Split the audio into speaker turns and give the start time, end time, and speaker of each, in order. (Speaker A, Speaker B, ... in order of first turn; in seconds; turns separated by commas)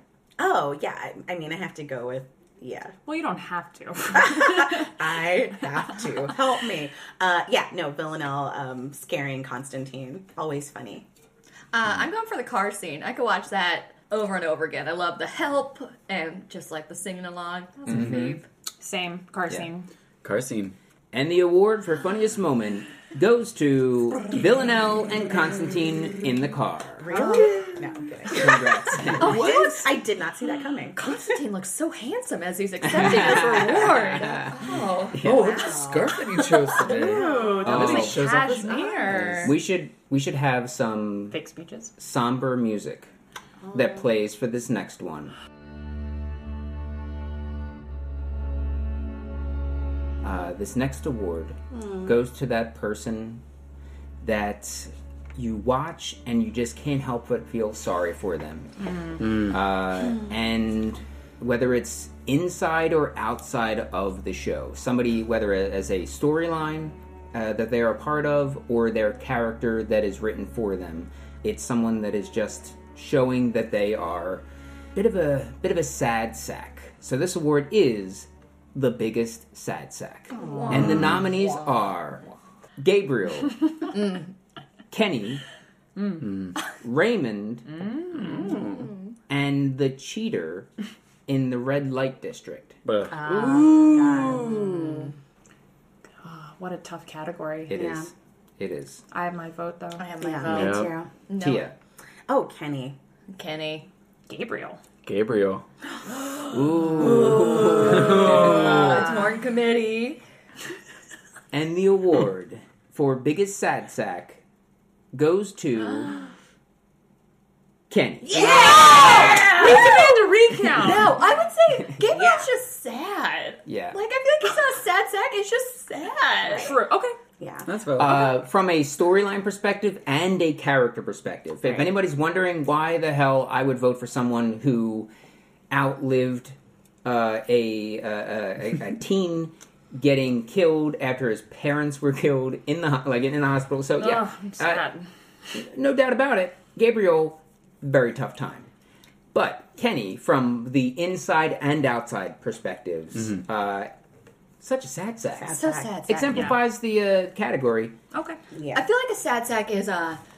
Speaker A: 0.4-3.0, Speaker B: 3.1-5.0, Speaker A: 4.1-11.1, Speaker C: 11.7-18.4, Speaker D: 17.9-18.2, Speaker E: 17.9-18.4, Speaker B: 18.8-19.9, Speaker E: 20.2-20.8, Speaker D: 21.1-27.1, Speaker A: 27.0-31.0, Speaker B: 27.1-27.9, Speaker D: 28.3-29.8, Speaker C: 29.2-29.9, Speaker C: 30.9-35.2, Speaker D: 32.9-35.5, Speaker B: 33.0-34.2, Speaker E: 35.2-39.5, Speaker A: 35.2-38.0, Speaker B: 37.0-39.5, Speaker D: 37.6-38.2, Speaker A: 38.7-39.2, Speaker D: 39.2-41.4, Speaker B: 41.3-41.9, Speaker D: 42.0-43.1, Speaker A: 43.6-43.9, Speaker D: 43.7-45.4, Speaker D: 50.2-53.4, Speaker A: 51.7-52.1, Speaker D: 54.2-74.4, Speaker E: 59.2-59.5, Speaker D: 75.0-82.3, Speaker A: 80.3-81.0, Speaker C: 80.3-81.9, Speaker E: 80.7-81.2, Speaker D: 82.8-83.9, Speaker C: 83.9-84.3, Speaker D: 84.9-85.4, Speaker B: 86.0-86.2, Speaker E: 86.2-86.5, Speaker D: 86.8-87.7, Speaker B: 87.7-88.6, Speaker E: 88.1-88.9, Speaker C: 88.3-89.1, Speaker D: 89.3-90.7, Speaker D: 91.3-92.8, Speaker E: 92.8-95.1, Speaker A: 93.1-95.1, Speaker B: 96.2-97.8, Speaker D: 97.7-99.0, Speaker A: 97.7-98.1, Speaker B: 99.1-100.0, Speaker C: 100.0-101.7, Speaker A: 100.2-101.1, Speaker E: 100.5-101.0, Speaker D: 101.4-101.7, Speaker A: 102.3-103.0, Speaker C: 103.3-103.9, Speaker B: 104.3-104.8, Speaker E: 105.0-105.7, Speaker C: 106.2-110.2, Speaker D: 106.5-108.7, Speaker A: 107.1-107.8, Speaker E: 107.9-109.1, Speaker B: 108.9-109.2, Speaker D: 111.5-114.4, Speaker D: 115.1-116.2, Speaker D: 117.9-118.7, Speaker A: 118.2-120.1, Speaker C: 118.3-120.2, Speaker B: 118.9-121.2, Speaker C: 120.7-126.7, Speaker A: 122.0-122.5, Speaker D: 123.7-124.0, Speaker A: 126.5-126.8, Speaker B: 126.5-127.2, Speaker A: 127.4-127.7, Speaker E: 127.7-128.3, Speaker D: 127.9-135.1, Speaker A: 131.6-131.9, Speaker D: 135.7-144.9, Speaker B: 144.0-145.1, Speaker D: 145.5-148.7, Speaker D: 149.3-153.9, Speaker D: 154.6-157.9, Speaker A: 155.3-156.0, Speaker C: 155.5-156.6, Speaker B: 158.1-158.4, Speaker A: 158.5-158.9, Speaker C: 158.7-160.2